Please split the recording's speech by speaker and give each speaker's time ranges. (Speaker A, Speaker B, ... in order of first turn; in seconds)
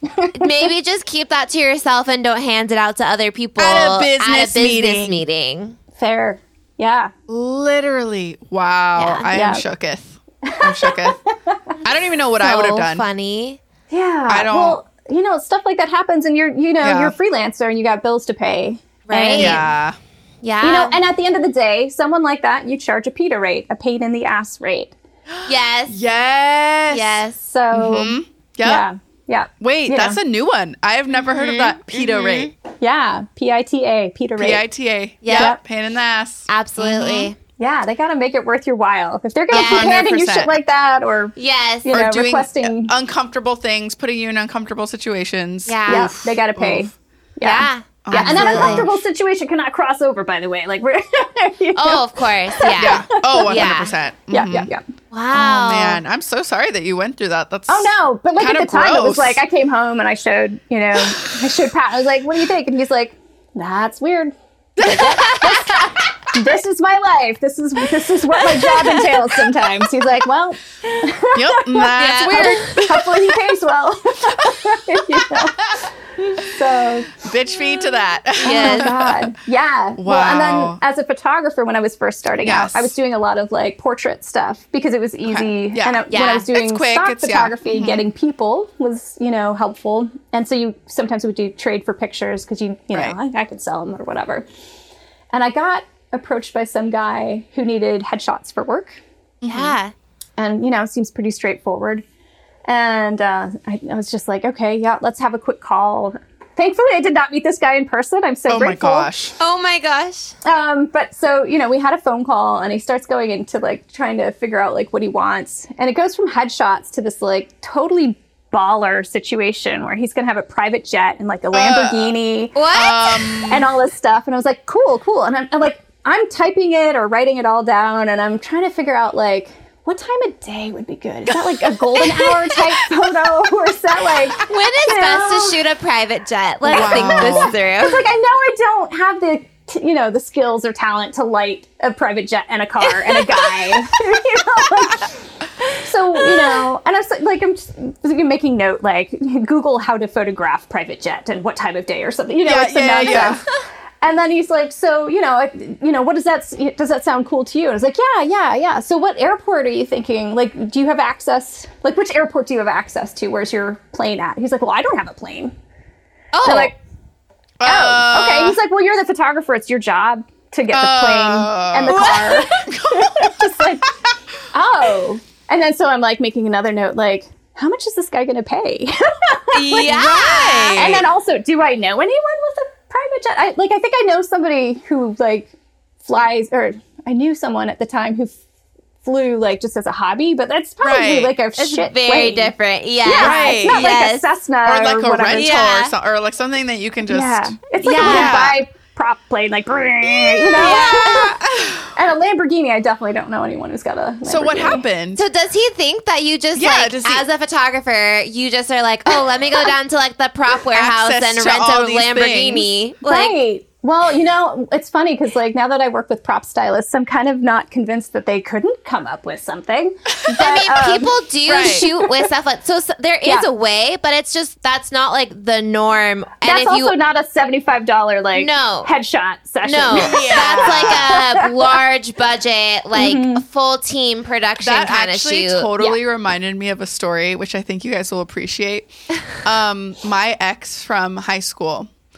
Speaker A: 0.1-0.6, 6.0-7.1, 9.3-9.6, 10.4-11.6, 13.9-19.6, 20.6-24.9, 27.4-30.2, 32.8-34.6, 35.3-35.6, 37.6-42.9, 45.9-53.7, 54.3-54.8, 57.7-75.8, 76.4-77.2, 78.4-94.5, 95.3-99.0, 100.4-102.0, 102.7-109.1, 110.5-122.6, 123.5-135.6, 136.6-145.2, 145.8-153.4, 154.0-165.5, 166.4-166.8, 167.6-173.9, 174.5-180.0, 180.8-185.5, 186.0-188.4, 189.0-195.7, 197.1-201.4, 201.9-204.8, 213.1-222.1, 226.4-231.5, 232.9-233.4
Speaker B: 0.3-5.8, 9.0-9.3, 12.4-13.6, 19.1-19.6, 20.4-21.0, 25.4-26.0, 26.9-27.4, 31.3-32.5, 35.2-35.5, 36.5-37.4, 39.5-40.0, 41.4-41.9, 45.7-46.2, 47.4-48.9, 51.8-53.9, 55.1-56.0, 65.0-65.9, 72.0-72.9, 78.4-79.0, 86.1-86.5, 99.5-99.9, 109.4-110.3, 122.5-123.3, 134.4-138.1, 153.1-153.3, 166.3-166.7, 171.9-172.4, 179.5-181.0, 191.6-194.2, 195.3-195.9, 197.8-198.5, 200.5-201.3, 205.2-213.4, 220.3-226.9, 228.3-228.9, 229.6-235.8
Speaker C: 3.6-5.2, 7.3-11.2, 11.8-13.1, 14.3-14.8, 16.8-17.1, 19.4-20.0, 25.3-28.9, 29.6-32.5, 34.4-37.3, 39.5-40.5, 41.9-46.9, 48.0-49.0, 52.8-54.7, 55.3-59.4, 61.0-61.4, 64.8-65.9, 71.3-73.3, 74.4-75.8, 77.1-79.3, 80.0-80.8, 82.4-82.9, 85.2-88.0, 99.4-99.8, 108.5-109.3, 121.5-122.2, 122.7-123.7, 131.3-132.8, 136.7-137.6, 152.4-153.4, 167.6-168.6, 170.7-173.7, 179.8-181.1, 190.8-191.3, 193.1-193.9, 194.7-198.6, 200.0-201.9, 204.2-205.2, 206.6-207.3, 210.7-212.7, 221.5-221.9, 229.9-231.1, 234.6-238.9, 239.4-241.9